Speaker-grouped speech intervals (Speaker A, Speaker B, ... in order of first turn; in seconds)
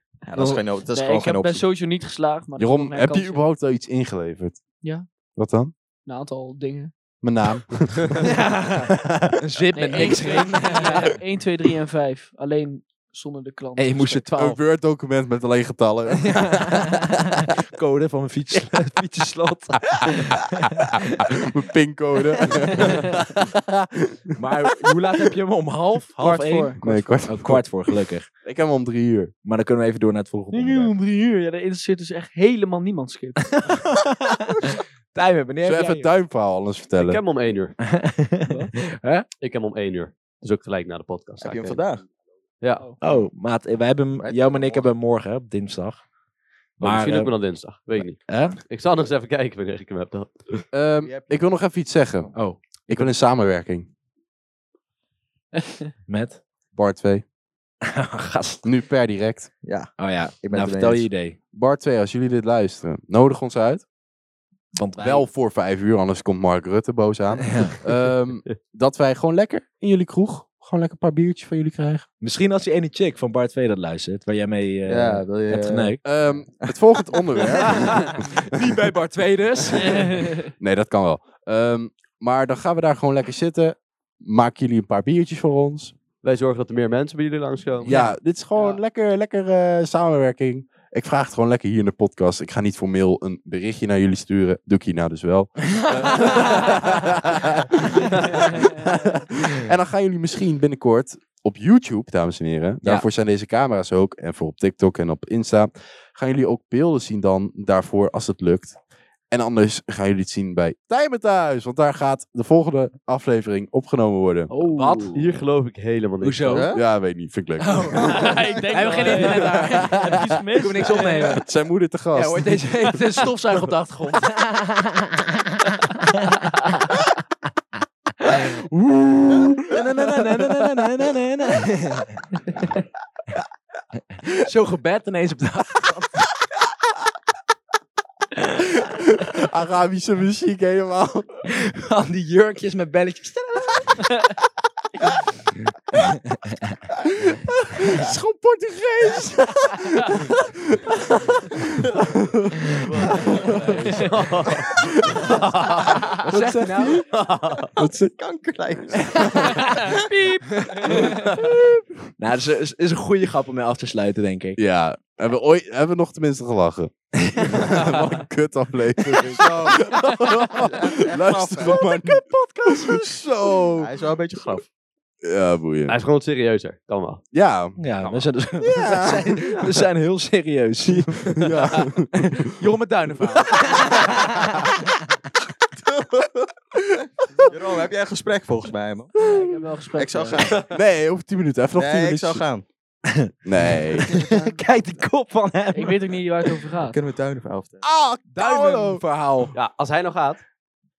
Speaker A: 0.3-1.6, 41.4-42.0, 44.2-44.9, 51.0-51.5, 59.6-61.1, 74.9-76.0, 76.6-77.8, 116.5-116.8, 118.5-119.2, 157.8-160.1, 161.0-161.3, 169.2-170.0, 170.5-171.9, 172.7-174.7, 187.4-189.2, 190.0-190.7, 191.8-192.7, 196.8-197.8
Speaker B: 0.3-3.5, 4.8-5.1, 6.0-6.9, 9.7-14.3, 22.8-23.2, 26.2-27.0, 30.5-33.7, 38.5-38.8, 55.5-55.8, 79.8-80.5, 114.5-115.1, 118.0-121.4, 153.4-153.9, 159.6-161.4, 189.2-190.5, 194.3-194.6, 195.7-197.0
Speaker C: 2.6-4.6, 5.3-5.7, 7.2-8.3, 8.9-9.4, 14.4-16.9, 21.1-24.4, 26.8-29.3, 35.6-37.2, 50.7-53.9, 56.7-57.2, 58.6-59.5, 61.5-63.9, 65.0-72.1, 76.0-78.5, 80.4-85.9, 87.9-108.8, 109.3-114.5, 116.7-118.3, 119.2-120.2, 120.9-122.7, 128.3-131.0, 138.6-141.4, 147.1-154.0, 154.8-155.3, 155.9-157.2, 157.7-158.1, 161.4-161.8, 164.6-173.9, 175.2-176.0, 177.3-177.8, 178.6-179.4, 181.0-182.5, 183.4-183.8, 189.2-189.6, 190.5-192.4, 193.4-194.2, 197.8-199.0
Speaker D: 8.2-11.1, 13.8-14.6, 16.2-21.2, 24.4-28.3, 29.4-30.9, 33.6-36.1, 37.8-39.3, 43.0-46.0, 46.8-47.3, 48.2-48.6, 52.3-52.6, 56.1-56.4, 57.9-58.6, 60.0-61.4, 64.7-65.3, 67.4-67.8, 72.2-76.0, 77.7-80.3, 87.9-88.2, 95.9-96.7, 114.6-115.4, 116.2-116.7, 117.6-121.4, 122.1-126.8, 129.7-132.3, 134.4-136.3, 141.5-144.1, 145.9-146.5, 156.2-157.0, 159.2-159.8, 160.6-161.1, 162.2-164.6, 167.2-167.6, 177.8-184.9, 193.1-196.6, 198.3-199.5
Speaker E: 37.0-37.8, 39.4-41.9, 46.8-50.6, 86.2-87.9, 115.2-116.7, 152.8-156.1, 157.1-157.7, 175.9-177.2, 178.0-178.3, 199.5-200.4